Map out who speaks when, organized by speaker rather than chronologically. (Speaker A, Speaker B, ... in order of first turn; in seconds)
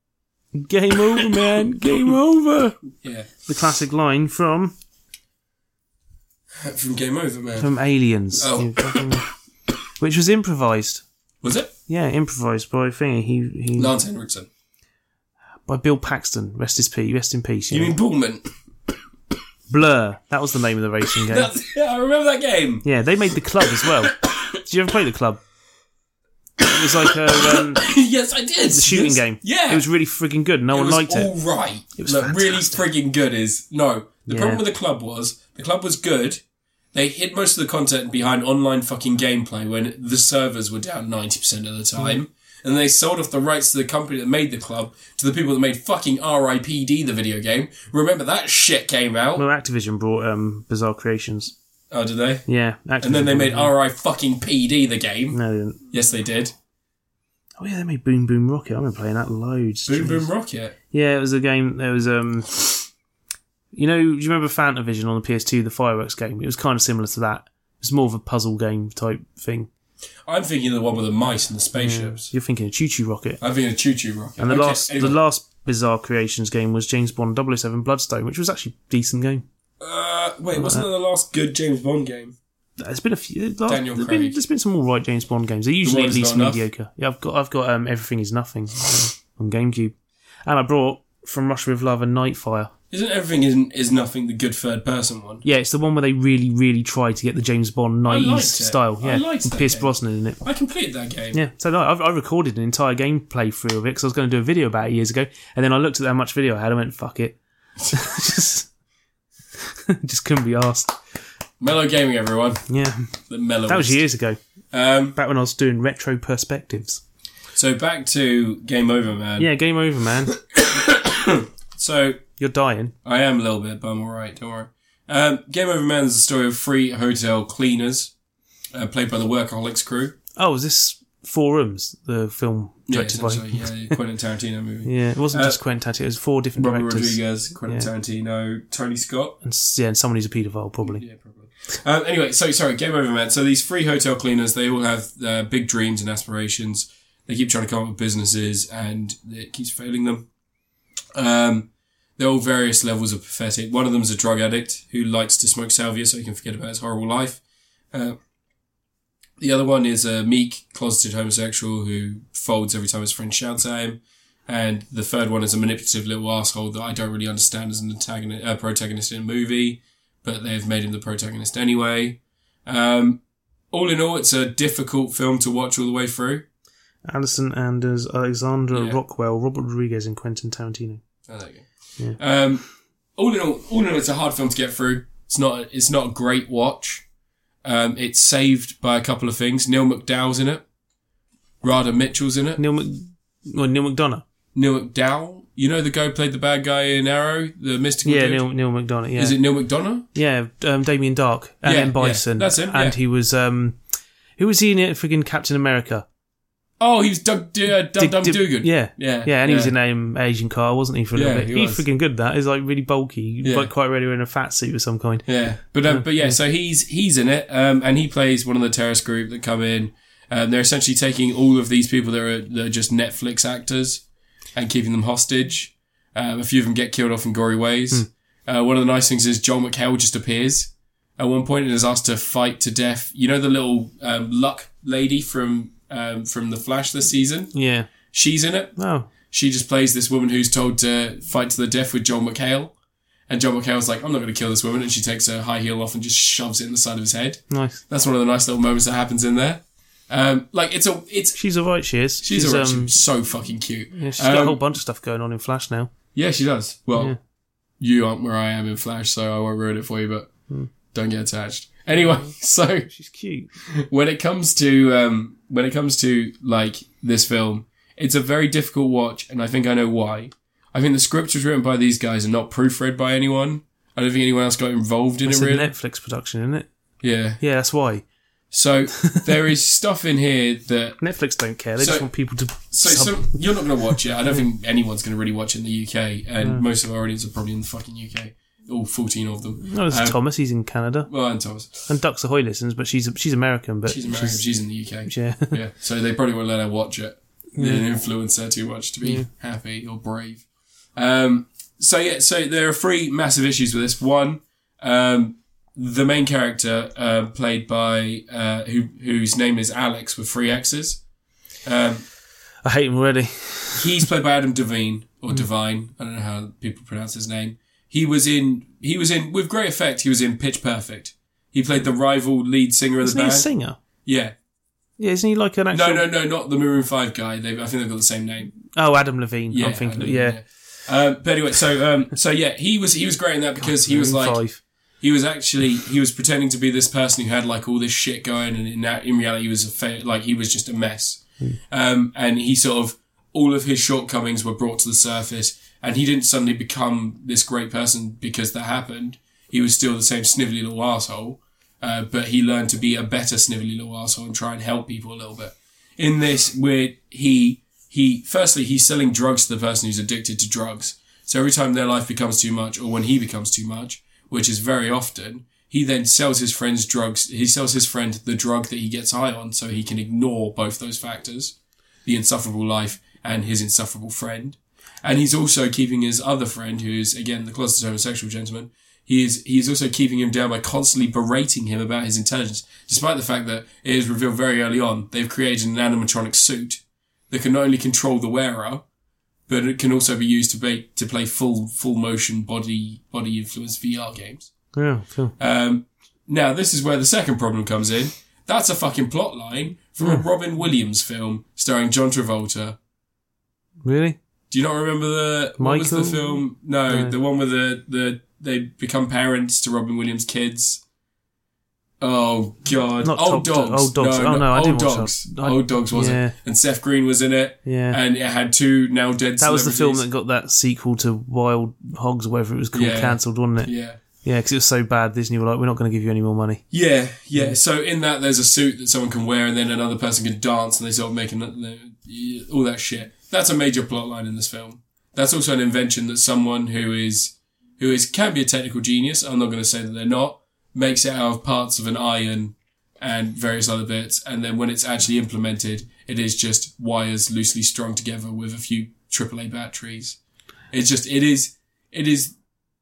Speaker A: 0.5-2.8, 3.5-4.7, 7.6-9.3, 10.0-11.0, 11.9-13.9, 15.7-17.9, 19.7-21.5, 22.8-25.4, 26.6-27.9, 28.7-31.3, 32.0-32.8, 34.3-34.6, 49.4-51.5, 52.5-53.7, 55.3-55.8, 57.6-60.3, 60.9-62.8, 63.7-69.7, 71.8-73.4, 74.4-79.4, 80.5-80.8, 82.8-89.9, 90.5-92.7, 95.4-100.4, 101.3-107.4, 107.9-108.7, 109.5-111.0, 112.7-113.1, 113.7-114.4, 115.1-117.0, 119.4-120.4, 122.4-122.9, 130.4-133.9, 134.8-137.9, 139.4-141.0, 177.1-181.0, 192.6-194.2, 198.0-199.4, 200.1-203.8, 204.4-206.1, 208.0-215.3, 215.9-216.4, 237.5-237.9, 238.8-239.1, 247.5-247.8, 251.4-253.0, 253.9-255.9, 261.9-262.3, 262.9-263.5, 275.2-276.7, 277.4-278.0, 279.0-279.3, 281.0-283.4, 289.6-291.1, 291.9-294.4, 295.1-295.6, 297.6-297.9, 312.6-314.1, 323.0-323.8, 325.0-326.0, 328.7-330.4, 333.6-334.6, 394.7-395.3, 403.8-404.2, 405.6-406.4, 406.9-407.1, 413.0-416.3, 417.6-418.0, 419.4-423.7, 424.2-426.6
Speaker B: 1.1-1.4, 3.0-3.3, 6.6-7.7, 8.4-9.1, 11.4-11.7, 13.8-14.5, 17.7-18.5, 21.3-22.9, 23.7-24.3, 26.6-29.9, 30.7-36.4, 36.9-49.4, 51.9-52.5, 53.0-55.4, 55.9-56.5, 59.9-60.7, 70.3-72.3, 73.4-75.2, 79.8-82.4, 83.7-84.4, 85.8-86.6, 92.9-95.4, 98.1-101.4, 111.6-112.6, 113.3-114.0, 114.7-115.2, 117.5-119.5, 120.5-122.2, 123.0-128.1, 128.7-130.2, 132.9-135.6, 136.6-139.3, 140.8-150.3, 151.1-157.4, 157.9-158.2, 159.4-173.2, 173.7-176.4, 178.7-179.0, 181.3-182.7, 183.2-187.0, 187.6-190.6, 191.6-192.6, 194.5-198.5, 199.2-200.1, 201.6-203.0, 206.8-209.7, 211.1-211.8, 213.4-213.7, 215.2-224.0, 224.5-237.5, 238.1-238.7, 239.3-242.7, 243.3-251.4, 252.2-254.6, 256.1-257.1, 257.8-260.3, 260.9-262.9, 263.8-275.7, 277.0-277.4, 278.5-281.0, 281.8-282.1, 282.7-290.2, 291.1-291.9, 293.9-300.4, 300.9-311.0, 311.6-312.0, 313.7-323.5, 324.0-324.3, 325.7-328.6, 329.5-334.4, 335.0-388.8, 389.5-394.5, 395.4-402.8, 404.5-410.8, 412.0-420.0, 422.7-424.0, 426.7-450.2, 450.7-452.3